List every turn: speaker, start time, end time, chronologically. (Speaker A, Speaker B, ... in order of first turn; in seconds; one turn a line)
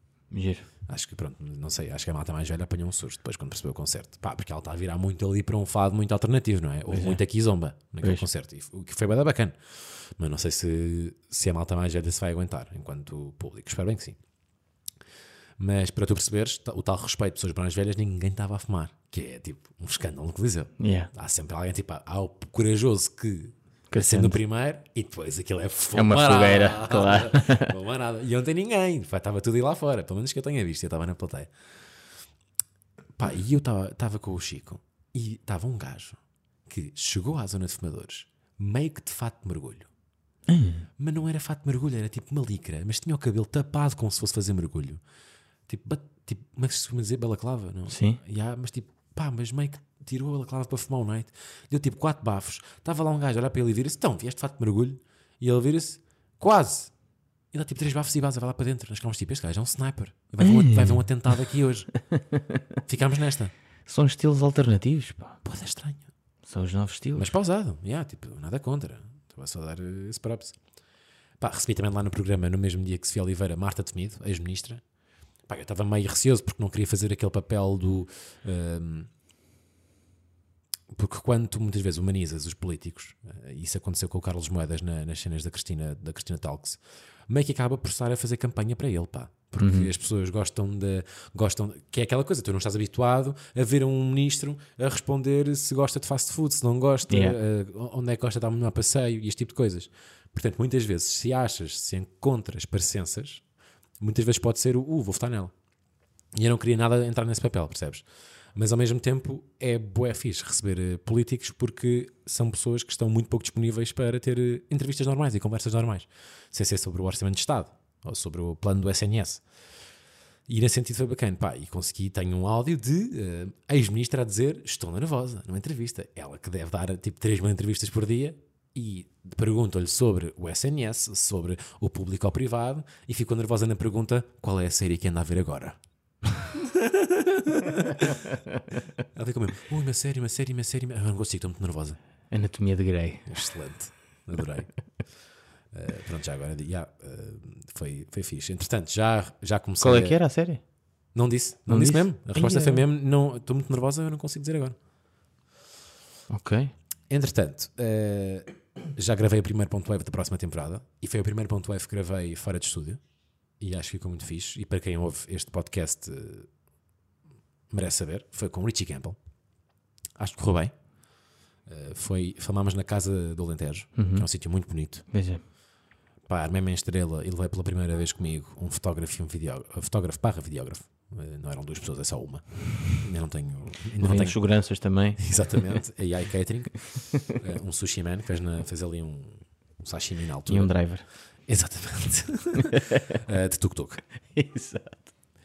Speaker A: 0.3-0.7
Speaker B: 0.9-14.2
Speaker A: 6.9-7.2
Speaker B: 15.6-31.5
Speaker A: 20.8-21.1
Speaker A: 23.9-24.4
Speaker A: 25.9-27.7
Speaker B: 33.2-39.9
Speaker A: 40.5-40.9
Speaker B: 41.0-45.0
Speaker B: 45.7-56.9
Speaker A: 47.9-48.2
Speaker B: 57.5-61.9
Speaker A: 60.4-61.4
Speaker A: 62.1-62.8
Speaker B: 62.9-63.5
Speaker A: 63.9-65.4
Speaker B: 65.5-66.1
Speaker A: 66.4-67.4
Speaker B: 67.2-70.6
Speaker B: 71.4-74.8
Speaker B: 75.5-79.1
Speaker B: 80.9-103.4
Speaker A: 89.6-89.9
Speaker A: 97.1-97.4
Speaker B: 104.0-105.5
Speaker B: 106.3-108.0
Speaker B: 108.6-119.4
Speaker B: 120.5-135.8
Speaker B: 136.5-138.3
Speaker B: 139.1-142.0
Speaker A: 142.3-143.3
Speaker B: 143.3-144.8
Speaker B: 145.7-150.2
Speaker A: 149.8-150.6
Speaker B: 151.2-154.8
Speaker A: 151.7-152.8
Speaker A: 156.3-156.7
Speaker B: 157.1-163.0
Speaker B: 163.6-166.5
Speaker B: 167.7-169.2
Speaker B: 170.2-170.7
Speaker B: 171.7-175.1
Speaker A: 174.0-174.3
Speaker A: 175.1-175.4
Speaker B: 176.3-184.4
Speaker A: 184.0-185.8
Speaker B: 185.2-190.8
Speaker A: 190.5-191.1
Speaker B: 191.5-194.0
Speaker A: 192.6-193.1
Speaker A: 194.3-195.1